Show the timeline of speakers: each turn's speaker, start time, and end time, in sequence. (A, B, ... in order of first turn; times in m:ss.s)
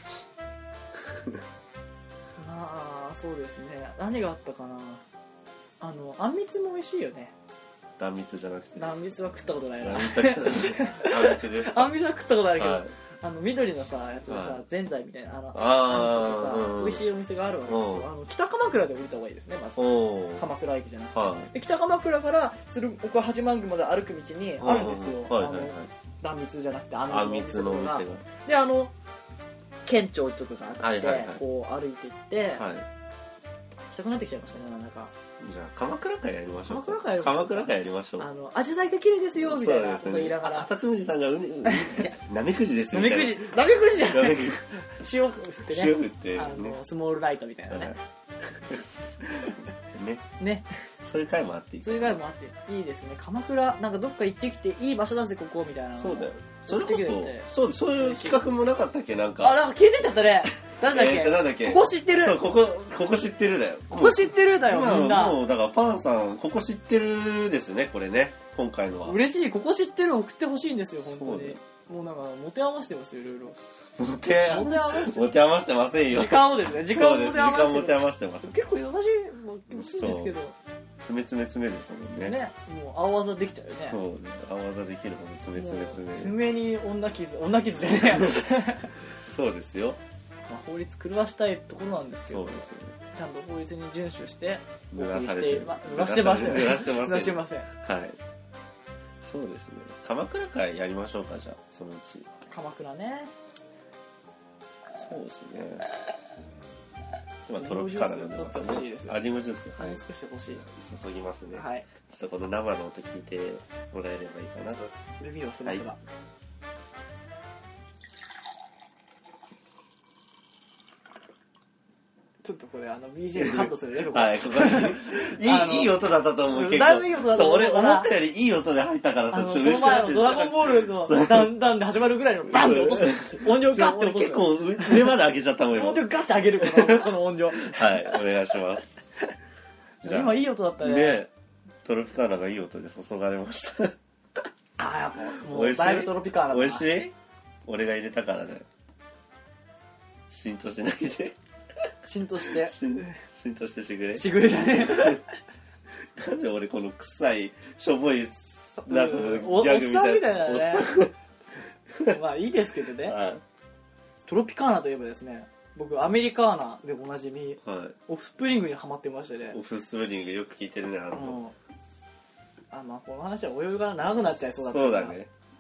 0:02.4-0:05.0 A
0:05.8-0:07.3 A
0:08.0-0:09.2 B
0:08.8-0:28.9 A
0:09.8-0:11.9 B
0:12.6-0:12.9 B
0:14.3-0:14.6 B
0:15.5-0:17.0 B
0:17.7-0:18.1 B
0:19.8-0:20.4 B
0:21.1-0:21.5 B
0:24.6-0:25.9 B
0:27.1-0:28.2 B
0:29.8-0:32.6 A
0:30.8-0:31.4 B
0:32.6-0:32.9 B
0:33.9-0:35.1 A
0:35.4-0:38.3 B
0:36.7-0:40.7 A
0:39.4-0:44.8 B
0:41.6-0:42.0 A
0:42.9-0:48.0 A
0:45.7-0:46.8 B
0:47.7-0:48.8 B
0:49.3-0:50.2 B
0:50.4-0:50.7 A
0:51.0-0:52.2 B
0:51.8-0:58.4 A
0:56.0-0:59.6 B
0:59.4-1:02.4 A
1:00.8-1:09.2 B
1:03.9-1:05.4 A
1:09.0-1:13.6 A
1:11.0-1:11.6 B
1:14.0-1:18.6 B
1:14.4-1:15.3 A
1:16.1-1:20.6 A
1:19.7-1:20.3 B
1:21.0-1:22.4 B
1:22.2-1:24.0 A
1:23.7-1:26.3 B
1:25.6-1:28.9 A
1:29.2-1:30.0 B
1:30.5-1:37.7 A
1:32.3-1:33.0 B
1:34.9-1:38.2 B
1:39.2-1:42.3 B
1:42.5-1:43.3 A
1:44.9-1:45.8 B
1:47.5-1:49.2 A
1:47.5-1:50.0 B
1:49.8-1:50.6 A
1:50.5-1:54.9 B
1:51.5-1:51.9 A
1:55.2-1:56.0 A
2:02.4-2:06.0 A
2:03.4-2:11.6 B
2:06.5-2:08.1 A
2:09.3-2:15.1 A
2:12.5-2:16.1 B
2:15.7-2:17.9 A
2:16.6-2:18.9 B
2:20.0-2:21.2 A
2:20.0-2:21.3 B
2:21.8-2:24.0 B
2:24.8-2:26.9 A
2:25.4-2:27.1 B
2:27.7-2:28.7 B
2:30.3-2:31.4 B
2:32.0-2:33.1 A
2:32.4-2:35.2 B
2:34.2-2:35.3 A
2:36.1-2:41.1 B
2:38.8-2:41.0 A
2:42.1-2:43.2 A
2:43.0-2:43.4 B
2:44.3-2:49.6 A
2:47.6-2:48.0 B
2:49.5-2:51.4 B
2:51.1-2:51.6 A
2:52.7-2:55.2 A
2:54.4-2:55.3 B